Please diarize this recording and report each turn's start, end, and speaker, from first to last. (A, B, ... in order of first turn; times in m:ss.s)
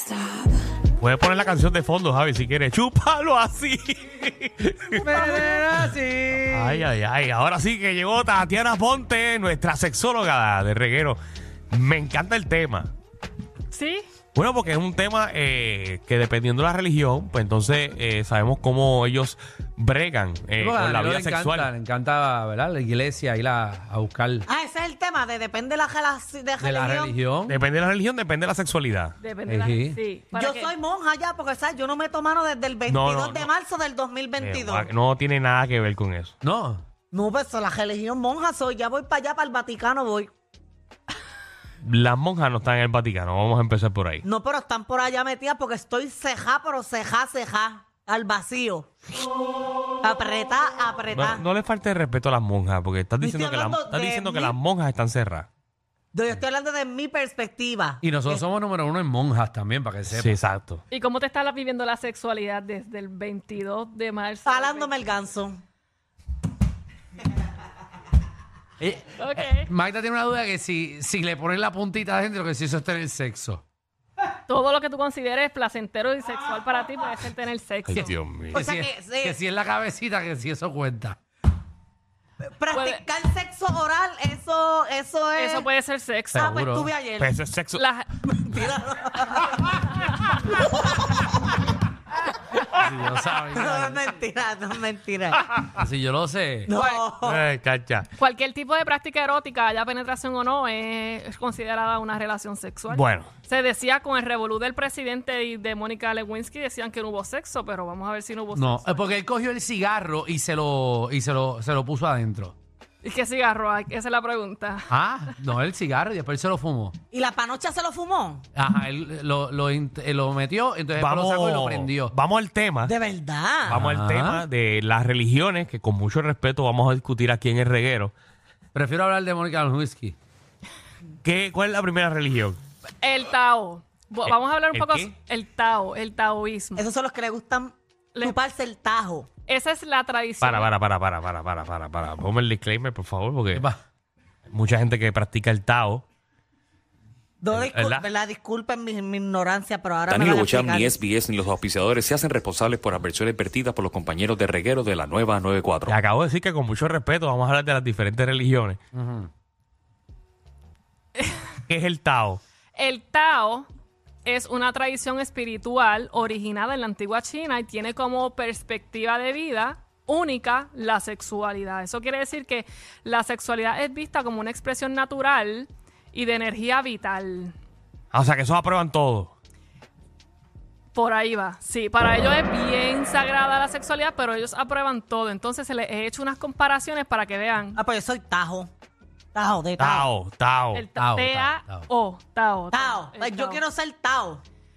0:01.0-0:05.7 A
0:05.0-0:06.6 B
0:05.1-0:06.8 C
0:06.5-0:11.2 A
0:11.7-0:12.9 A
0:13.7-0:14.1 D
0:14.3-0:21.7 A
0:20.6-0:24.4 C
0:24.4-0:27.1 B
0:26.6-0:27.6 C
0:27.5-0:29.2 A
0:29.2-0:30.7 D
0:29.5-0:30.0 C
0:30.3-0:34.9 B
0:32.9-0:33.5 A
0:34.4-0:36.3 A
0:36.4-0:36.8 C
0:37.1-0:40.3 B
0:41.8-0:44.2 A
0:44.2-0:48.9 B
0:50.0-0:51.4 B
0:51.1-0:55.5 A
0:53.2-0:54.6 B
0:56.1-0:58.4 B
0:58.0-1:00.4 C
1:00.1-1:00.8 A
1:00.9-1:04.9 D
1:04.4-1:05.6 B
1:08.8-1:13.6 C
1:09.2-1:09.7 D
1:14.5-1:18.2 D
1:17.9-1:18.6 A
1:17.9-1:21.2 C
1:18.5-1:19.4 B
1:22.4-1:25.7 B
1:22.7-1:23.0 D
1:25.4-1:26.5 D
1:26.3-1:26.9 C
1:26.3-1:27.4 B
1:27.2-1:27.8 A
1:27.7-1:28.1 D
1:28.2-1:29.9 B
1:30.4-1:31.2 B
1:32.7-1:34.0 C
1:33.5-1:35.5 B
1:35.7-1:36.7 C
1:36.6-1:37.4 B
1:37.2-1:38.1 A
1:38.2-1:49.2 D
1:42.9-1:43.3 A
1:48.5-1:52.5 C
1:53.0-1:54.9 D
1:54.9-1:57.0 C
1:57.1-1:58.4 B
1:58.5-2:02.1 C
2:01.0-2:02.9 A
2:02.8-2:03.8 B
2:03.7-2:04.4 C
2:03.7-2:08.1 A
2:08.7-2:10.2 C
2:11.2-2:12.6 A
2:13.0-2:16.8 D
2:14.3-2:15.1 A
2:16.8-2:19.3 B
2:19.5-2:20.7 D
2:20.4-2:23.6 A
2:23.5-2:23.8 C
2:24.5-2:26.0 A
2:27.4-2:31.0 B
2:27.5-2:28.1 A
2:30.1-2:35.9 E
2:35.8-2:38.8 A
2:38.9-2:39.3 C
2:41.7-2:42.4 A
2:42.8-2:43.7 D
2:44.2-2:57.6 D
2:58.1-2:59.3 A
3:00.9-3:07.8 D
3:07.8-3:08.7 B
3:09.3-3:10.1 B
3:09.8-3:10.8 A
3:10.7-3:13.6 D
3:11.0-3:11.9 C
3:12.7-3:14.4 B